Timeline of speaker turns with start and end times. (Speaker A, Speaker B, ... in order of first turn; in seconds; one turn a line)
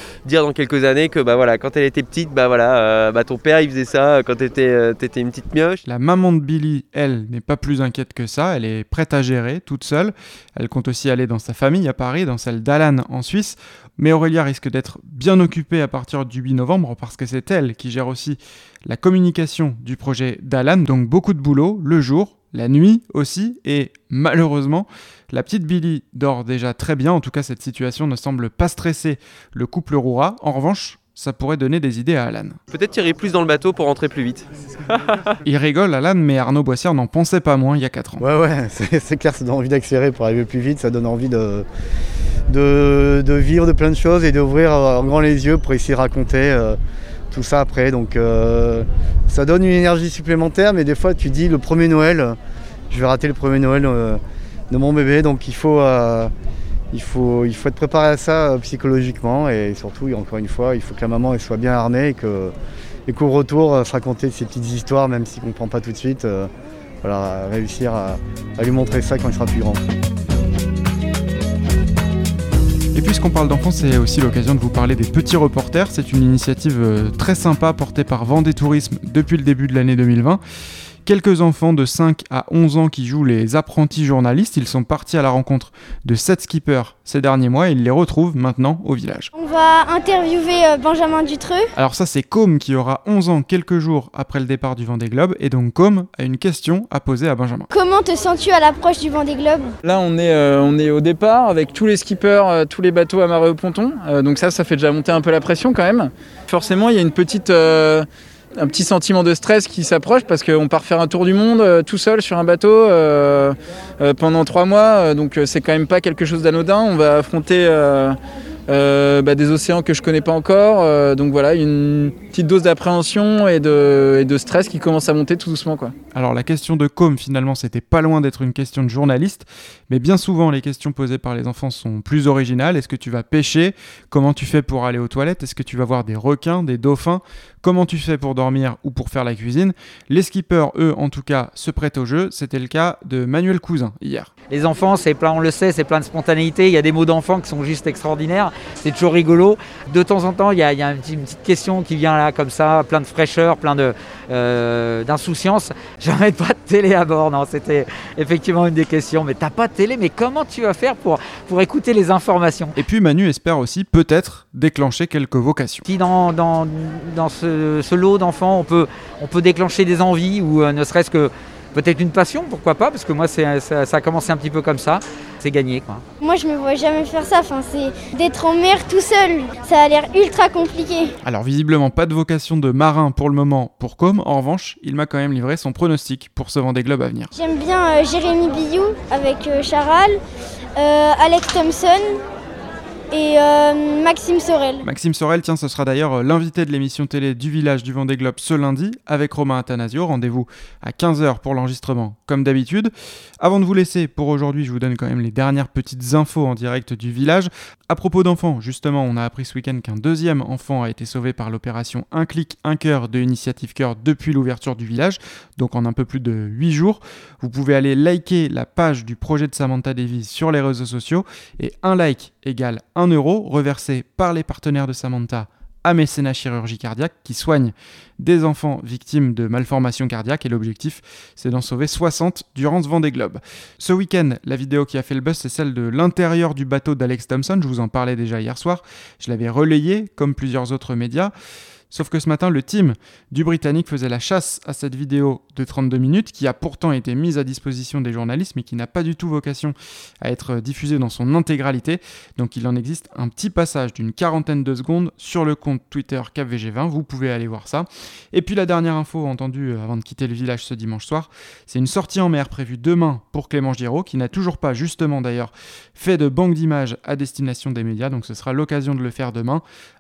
Speaker A: 0.2-5.8
Speaker B: 5.8-32.6
Speaker A: 32.7-35.1
Speaker B: 35.4-38.2
Speaker C: 38.2-41.7
Speaker C: 42.5-46.8
Speaker C: 47.3-52.4
Speaker C: 52.9-56.3
Speaker C: 56.9-62.5
Speaker C: 63.1-66.5
Speaker C: 67.0-69.8
Speaker B: 72.9-80.4
Speaker B: 81.0-89.3
Speaker D: 89.3-91.7
Speaker B: 91.8-97.7
Speaker D: 97.7-99.7
Speaker E: 99.8-108.0
Speaker E: 108.6-118.2
Speaker E: 118.7-125.9
Speaker B: 126.1-144.3
Speaker F: 144.5-162.7
Speaker B: 162.8-165.8
Speaker F: 165.9-176.0
Speaker D: 176.2-181.2
Speaker B: 181.2-187.3
Speaker D: 187.3-190.2
Speaker D: 190.8-192.2
Speaker D: 193.1-194.8
Speaker B: 194.8-241.3
Speaker B: 241.9-269.6